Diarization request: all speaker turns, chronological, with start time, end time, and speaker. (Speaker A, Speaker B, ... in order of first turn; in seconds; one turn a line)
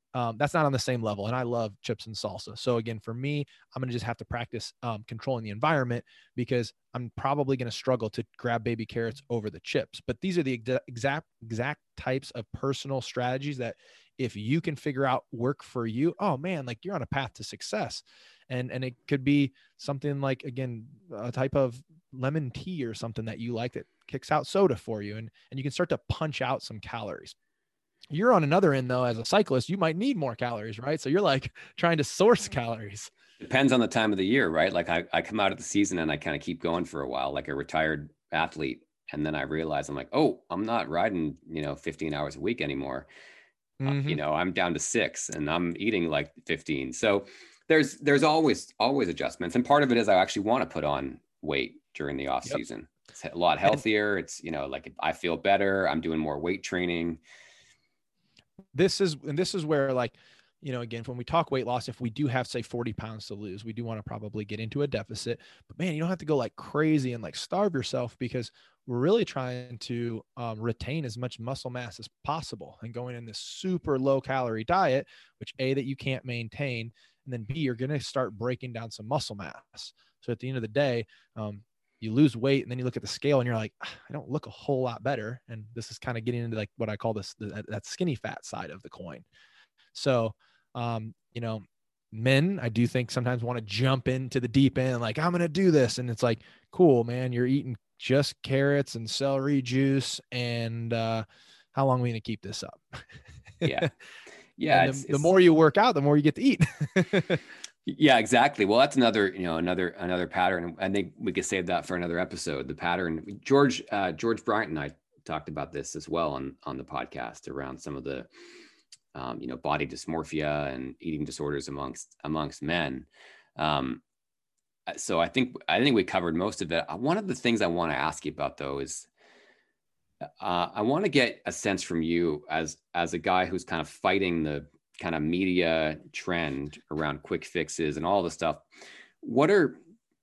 Speaker A: 0.1-27.4
Speaker A: 28.1-33.1
Speaker B: 33.4-43.1
Speaker A: 43.8-44.2
Speaker B: 43.9-57.2
Speaker A: 58.7-89.3
Speaker A: 89.9-103.0
Speaker A: 103.6-103.9
Speaker B: 103.6-103.9
Speaker B: 104.6-105.3
Speaker A: 104.7-107.4
Speaker B: 107.9-118.3
Speaker B: 119.2-124.0
Speaker B: 124.9-129.1
Speaker B: 130.4-138.7
Speaker B: 139.2-139.8